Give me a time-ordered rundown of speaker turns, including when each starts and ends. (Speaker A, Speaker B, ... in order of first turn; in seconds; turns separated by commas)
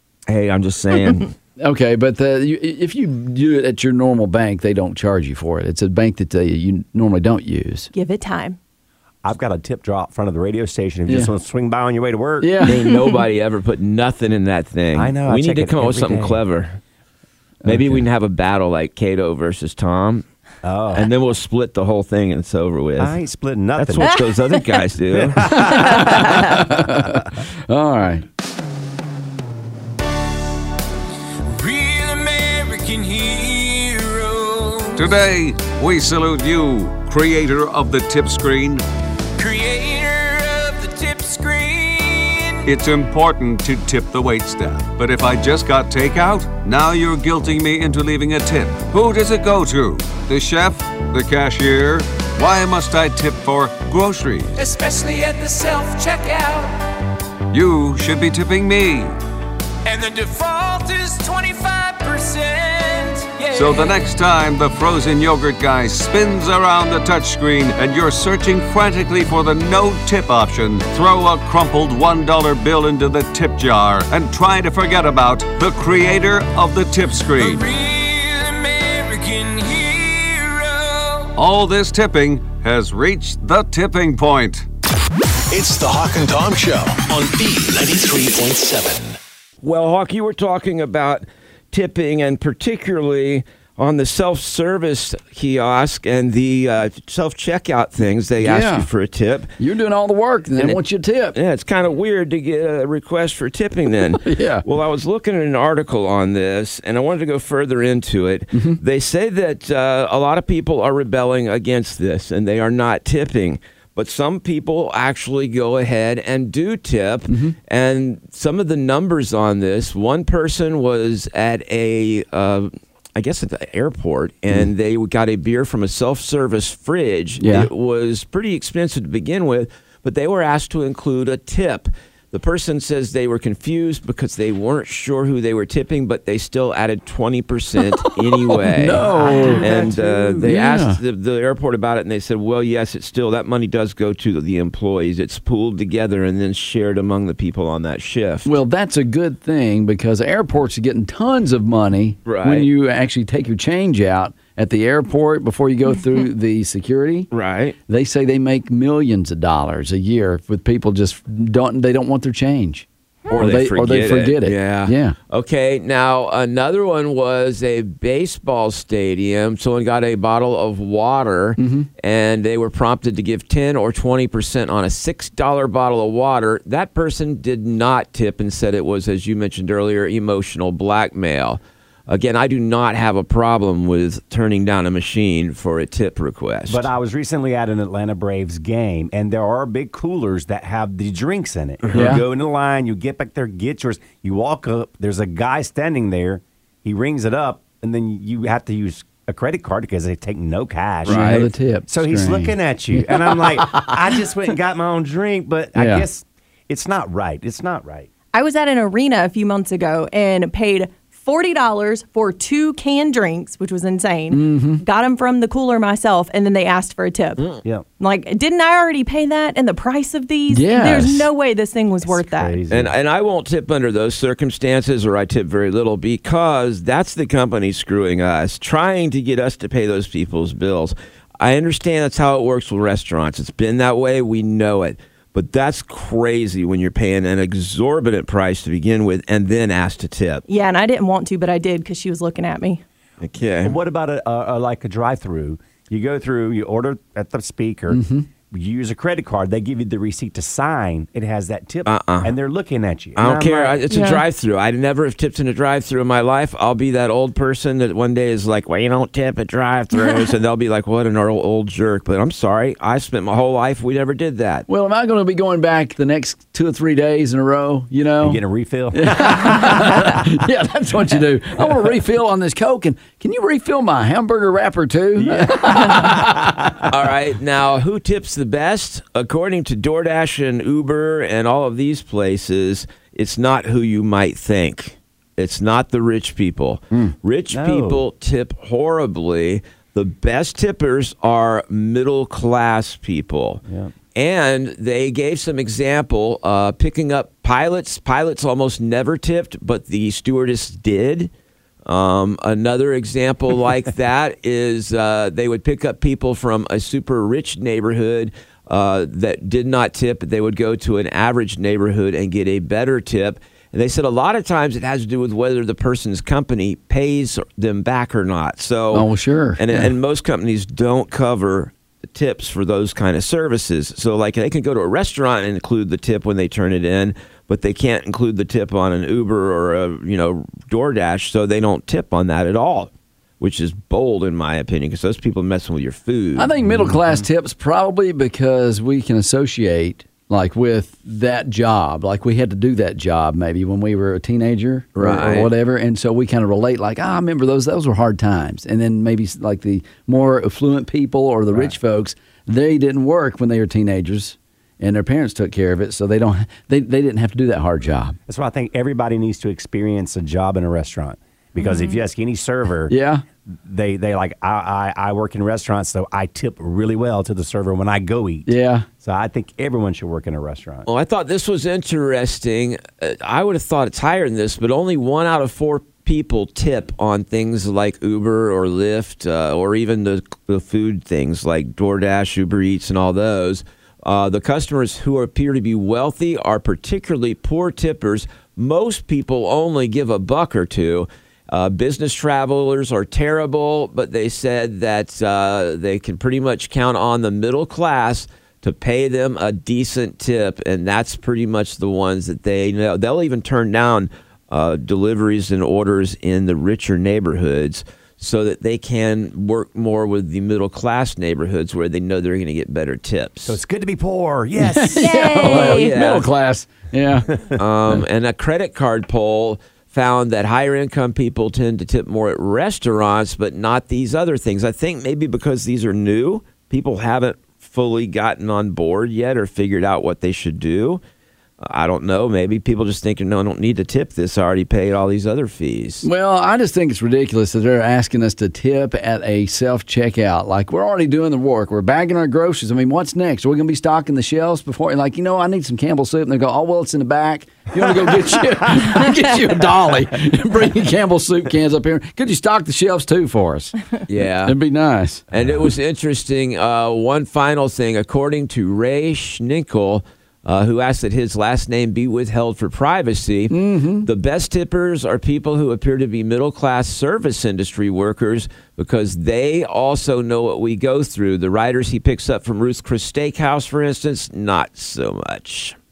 Speaker A: 0.3-1.3, Speaker B: 1.6-7.9, Speaker C: 7.9-8.6, Speaker D: 9.2-12.6, Speaker B: 12.4-12.8, Speaker A: 12.6-16.8, Speaker D: 14.9-16.4, Speaker B: 17.6-18.0, Speaker A: 17.6-20.2, Speaker D: 20.6-21.1, Speaker A: 20.9-23.2, Speaker D: 23.0-24.1, Speaker A: 23.8-25.6, Speaker D: 25.1-26.1, Speaker B: 25.5-28.2, Speaker C: 25.9-26.4, Speaker E: 31.4-35.1, Speaker F: 34.9-38.8, Speaker E: 39.3-42.7, Speaker F: 42.6-54.6, Speaker E: 54.5-56.8, Speaker F: 57.5-59.1, Speaker E: 59.8-64.1, Speaker F: 63.5-77.7, Speaker E: 77.3-81.3, Speaker F: 81.3-84.6, Speaker G: 85.5-89.2, Speaker A: 89.6-99.5, Speaker B: 98.4-98.9, Speaker B: 99.6-101.3, Speaker A: 101.3-148.5, Speaker B: 104.2-104.6, Speaker B: 108.5-108.8, Speaker B: 117.3-117.5, Speaker B: 127.4-127.7, Speaker B: 138.6-139.7, Speaker D: 139.0-140.5, Speaker B: 140.4-141.0, Speaker B: 148.4-157.3, Speaker A: 152.2-152.7, Speaker A: 157.3-157.8, Speaker B: 157.9-165.1, Speaker A: 163.3-186.9, Speaker B: 171.6-171.9, Speaker D: 186.7-208.1, Speaker A: 191.8-192.2, Speaker B: 191.9-192.2, Speaker A: 201.0-201.5, Speaker B: 201.1-203.9, Speaker B: 205.7-206.0, Speaker C: 208.3-217.4, Speaker B: 214.3-214.8, Speaker C: 218.0-222.6, Speaker B: 220.5-221.3, Speaker D: 222.0-222.9, Speaker A: 222.7-240.4, Speaker C: 240.5-242.8, Speaker A: 243.2-243.8, Speaker D: 243.6-253.8, Speaker B: 247.9-248.3, Speaker A: 251.8-252.3, Speaker A: 253.2-264.6, Speaker C: 253.9-254.2, Speaker B: 264.7-268.4, Speaker D: 268.2-270.3, Speaker B: 268.9-276.3, Speaker D: 275.2-276.9, Speaker A: 276.9-293.6, Speaker D: 287.5-288.0, Speaker D: 293.7-293.9, Speaker A: 294.1-301.3, Speaker A: 301.9-336.5, Speaker B: 318.9-319.9, Speaker B: 336.4-358.2, Speaker D: 336.6-337.2, Speaker A: 344.9-345.5, Speaker D: 358.3-362.9, Speaker C: 361.6-362.0, Speaker B: 362.9-363.2, Speaker D: 363.5-370.9, Speaker B: 368.5-368.9, Speaker A: 370.9-413.6, Speaker D: 413.4-415.8, Speaker B: 414.6-417.3, Speaker C: 414.9-415.9, Speaker A: 415.6-416.2, Speaker D: 417.3-417.6, Speaker A: 417.6-431.0, Speaker A: 431.6-436.1, Speaker B: 436.0-453.7, Speaker A: 454.1-454.6, Speaker B: 454.4-455.2, Speaker A: 455.3-475.8, Speaker B: 463.5-464.1